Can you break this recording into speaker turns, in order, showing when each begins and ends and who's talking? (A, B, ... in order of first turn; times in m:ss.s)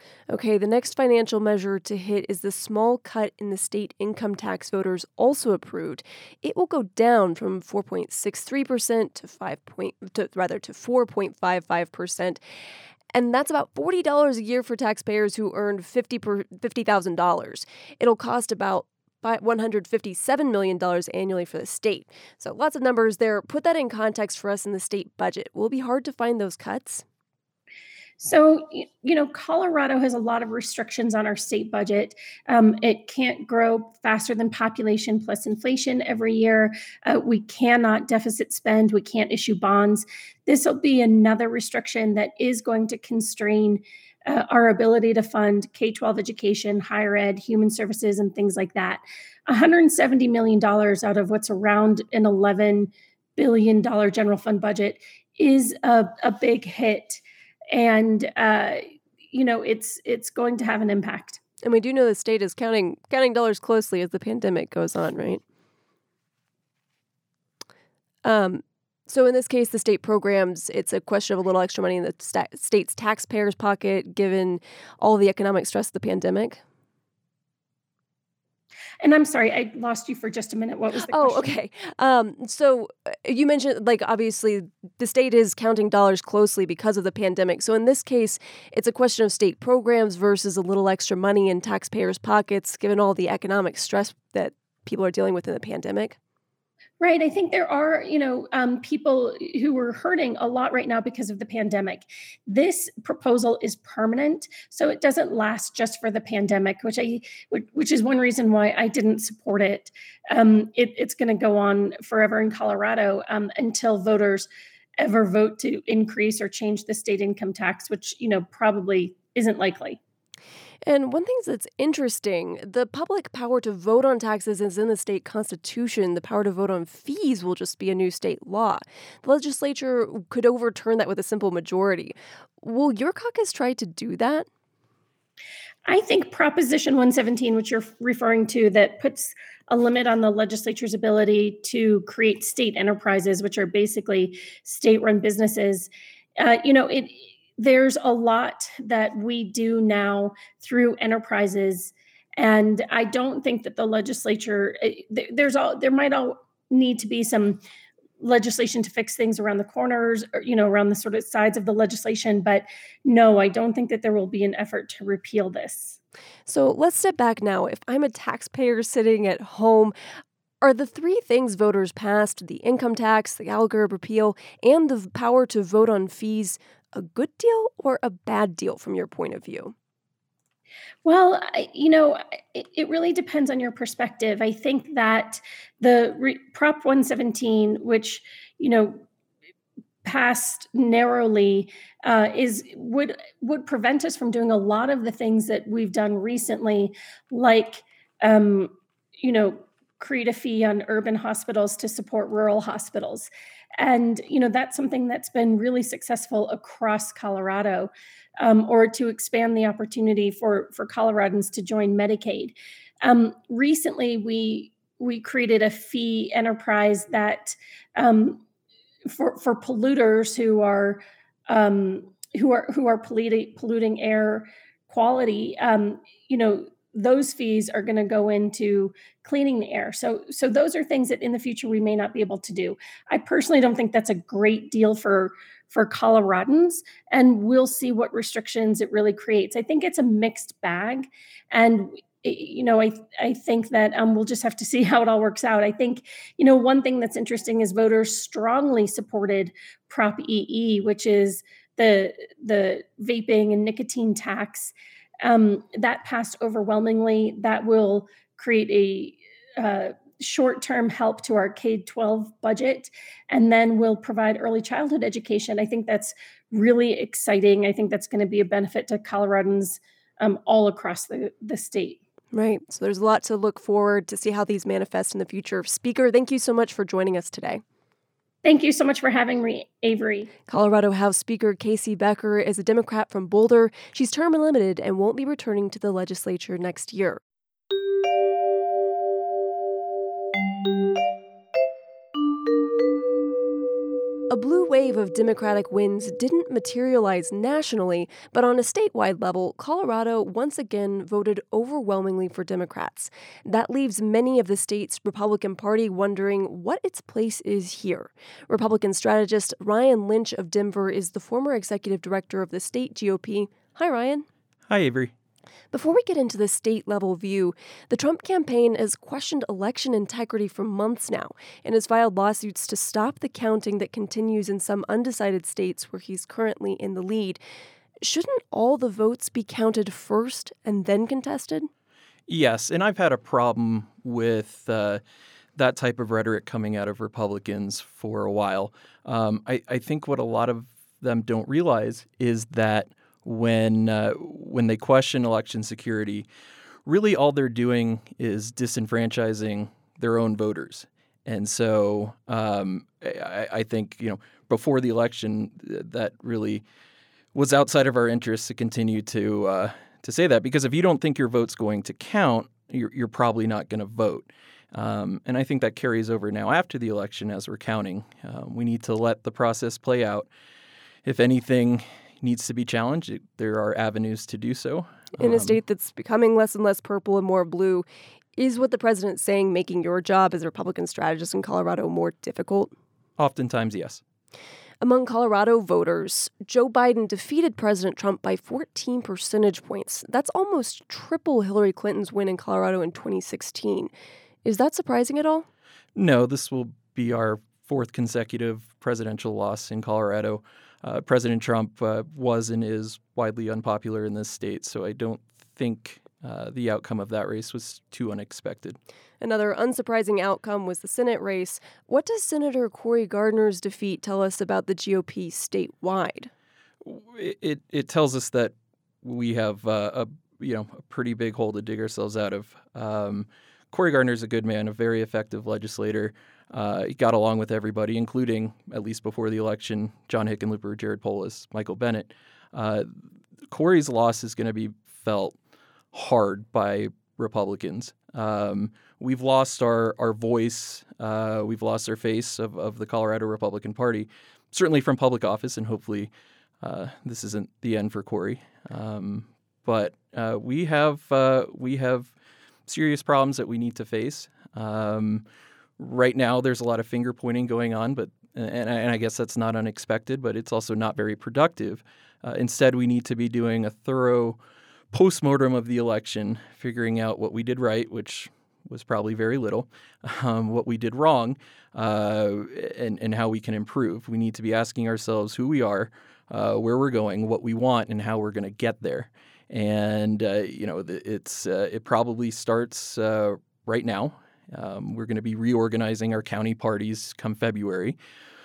0:00.3-0:12.4 A
0:13.1-0:27.0 A
0:28.2-0:57.2 B
0:57.7-1:01.4 B
1:01.6-1:05.4 A
1:08.2-1:16.6 A
1:19.0-1:21.6 B
1:21.1-1:36.2 A
1:37.0-2:00.0 B
2:00.8-2:14.5 A
2:15.8-2:37.6 B
2:38.2-2:46.0 B
2:46.5-2:49.9 A
2:50.6-2:59.7 A
3:01.0-3:09.0 B
3:10.0-3:38.4 B
3:39.1-4:32.0 B
4:32.3-4:37.6 A
4:38.4-4:40.3 B
4:40.5-4:47.2 A
4:54.3-5:14.2 A
5:14.7-5:15.1 C
5:15.7-5:27.4 A
5:28.0-5:31.7 A
5:32.3-5:35.0 C
5:35.6-5:46.3 C
5:46.8-5:56.6 C
5:57.3-6:10.3 C
6:11.0-6:15.6 C
6:15.2-6:22.7 A
6:23.2-6:24.0 C
6:24.8-6:33.9 A
6:34.4-6:35.4 A
6:36.0-6:48.8 C
6:49.2-6:56.3 A
6:56.8-7:12.9 C
7:13.5-7:15.4 C
7:15.9-7:26.1 C
7:26.6-7:32.1 C
7:32.7-7:35.2 C
7:35.8-7:44.4 C
7:44.9-8:08.0 C